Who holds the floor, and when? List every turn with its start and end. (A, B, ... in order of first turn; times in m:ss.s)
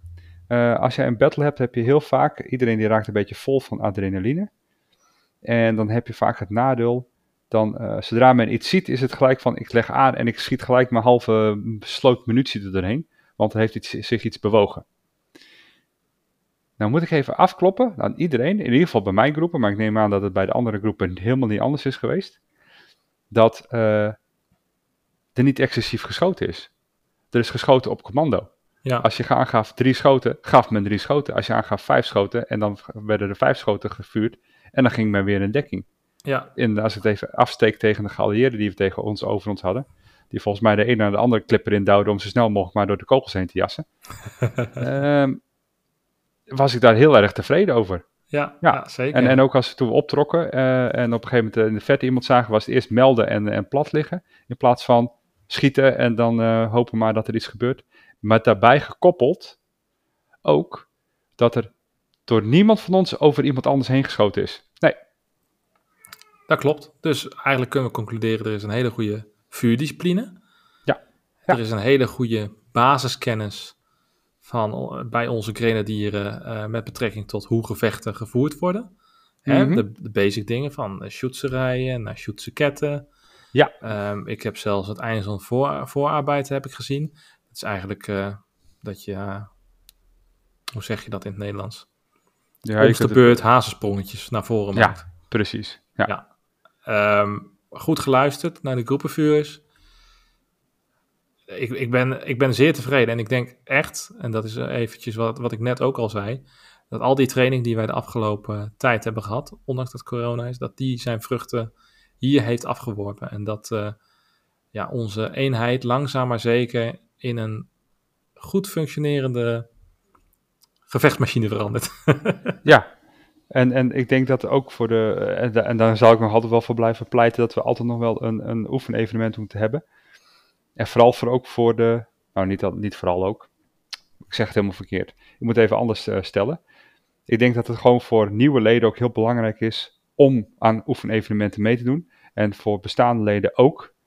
0:00.5-0:04.5 A
0:05.4-0:14.8 A
0:16.8-0:22.4 A
0:23.3-0:24.2 A
0:25.4-0:26.7 A
0:27.3-0:35.9 A
0:36.2-0:36.5 B
0:36.6-0:43.9 A
0:44.8-0:45.4 A
0:46.5-0:48.1 A
0:48.3-0:49.4 B
0:48.6-0:59.6 A
1:00.4-1:00.9 A
1:01.4-1:01.7 A
1:02.3-1:05.0 A
1:06.5-1:10.4 B
1:10.9-1:11.6 A
1:11.5-1:13.8 B
1:14.4-1:18.9 B
1:19.4-1:23.1 B
1:19.5-1:19.8 A
1:23.8-1:29.5 B
1:30.7-1:31.9 B
1:32.6-1:33.4 A
1:32.8-1:35.0 B
1:34.7-1:36.1 A
1:36.9-1:39.6 B
1:41.5-1:54.0 B
1:54.7-1:57.7 B
1:58.4-1:59.7 B
2:00.9-2:02.6 B
2:02.6-2:02.9 A
2:03.5-2:09.8 A
2:10.8-2:13.5 A
2:14.2-2:16.6 A
2:17.3-2:23.9 A